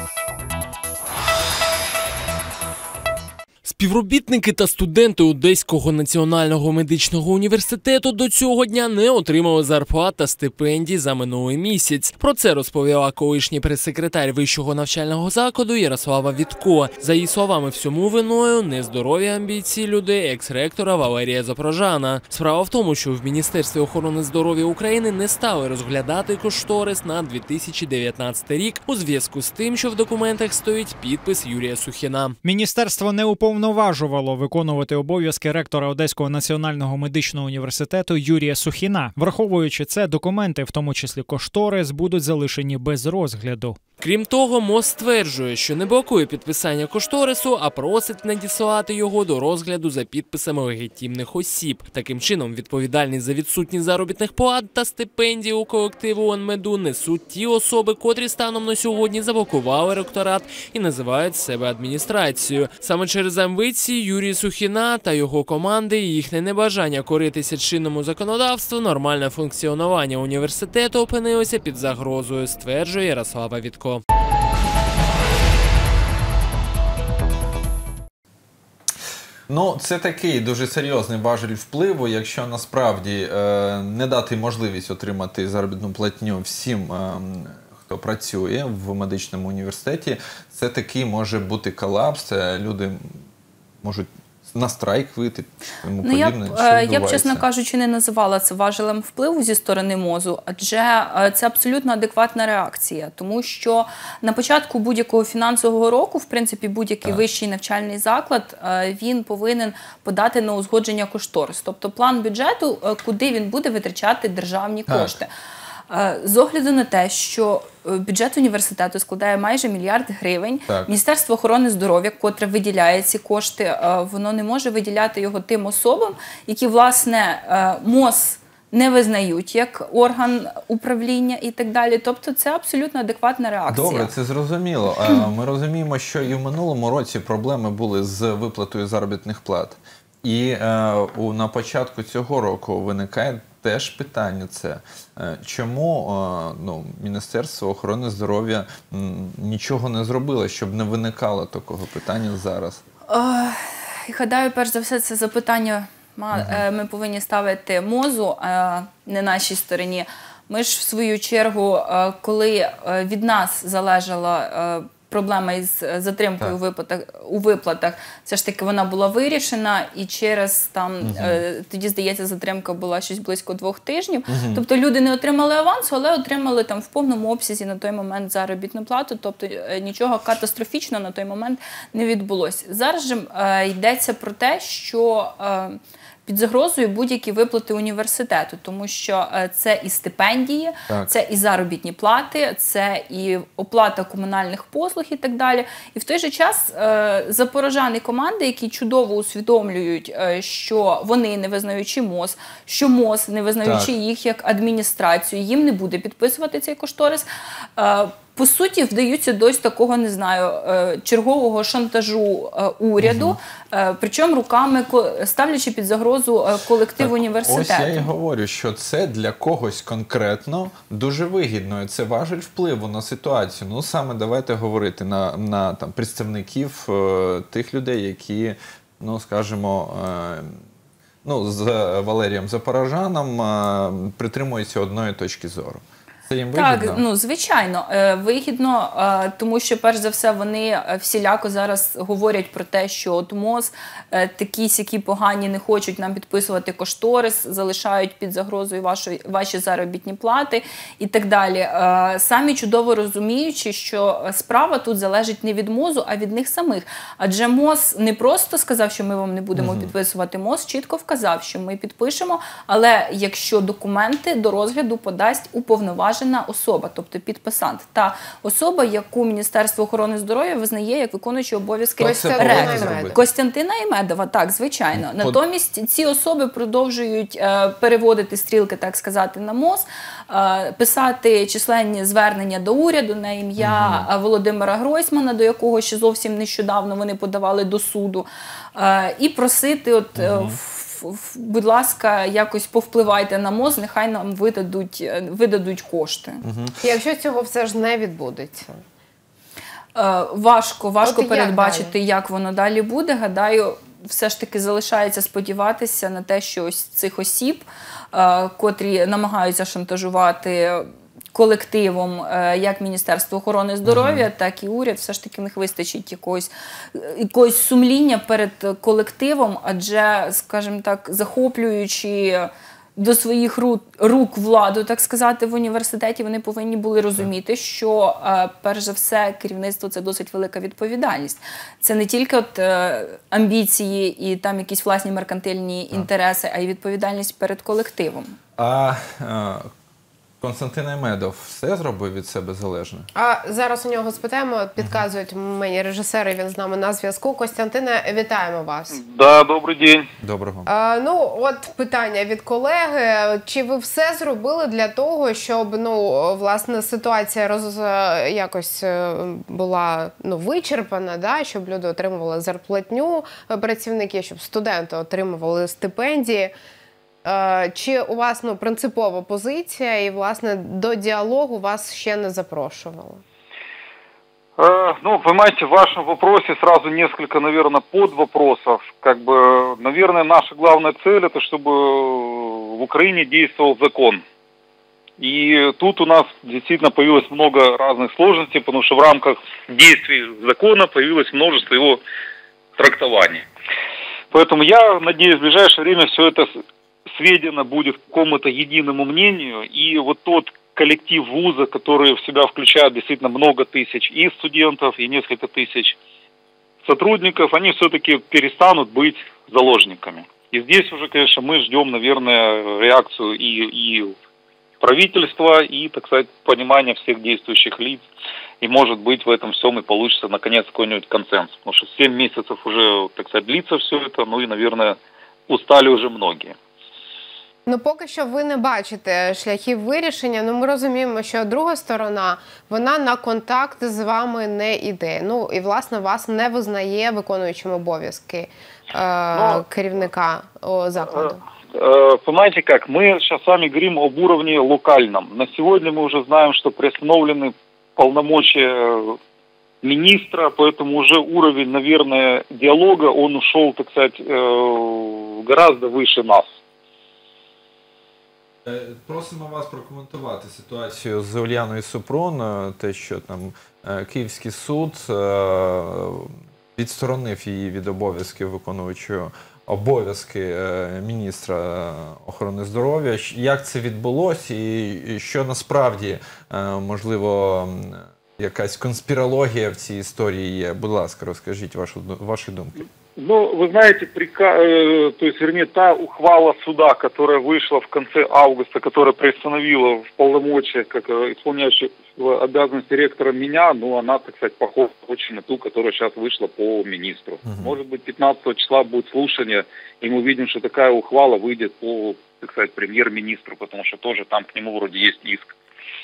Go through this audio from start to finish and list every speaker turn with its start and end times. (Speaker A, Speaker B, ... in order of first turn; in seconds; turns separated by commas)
Speaker A: 3.6-32.4, Speaker B: 32.4-43.8, Speaker A: 44.0-74.0, Speaker C: 79.5-93.2, Speaker C: 93.8-97.5, Speaker D: 96.0-115.3, Speaker C: 114.9-115.2, Speaker D: 115.9-134.1, Speaker C: 120.7-120.9, Speaker C: 133.7-152.8, Speaker D: 153.1-218.1, Speaker C: 156.3-156.6, Speaker C: 171.0-171.4, Speaker C: 174.3-174.6, Speaker C: 203.6-203.9, Speaker C: 213.0-213.4, Speaker C: 217.0-230.6, Speaker C: 231.2-237.0, Speaker D: 236.5-296.4, Speaker C: 259.6-259.9, Speaker C: 272.0-273.3, Speaker E: 272.0-273.2, Speaker C: 274.9-275.4, Speaker C: 283.6-284.1, Speaker C: 290.2-290.6, Speaker C: 296.4-296.8, Speaker E: 296.8-298.8, Speaker D: 299.9-338.4, Speaker E: 301.0-301.9, Speaker C: 313.9-314.3, Speaker C: 338.6-339.7, Speaker C: 340.4-343.1, Speaker E: 343.1-349.0, Speaker F: 348.9-350.1, Speaker C: 350.2-350.7, Speaker E: 350.7-366.5, Speaker E: 367.2-373.2, Speaker F: 374.6-384.2, Speaker F: 385.2-392.0, Speaker F: 392.8-393.4, Speaker F: 394.3-396.5, Speaker F: 397.1-406.0, Speaker F: 406.8-414.1, Speaker F: 414.8-418.1, Speaker F: 418.6-425.0, Speaker F: 425.5-426.6, Speaker E: 427.7-441.4, Speaker F: 439.3-439.7, Speaker F: 441.1-449.2, Speaker F: 449.8-456.6, Speaker C: 458.6-482.9, Speaker F: 483.2-505.5, Speaker C: 497.4-497.8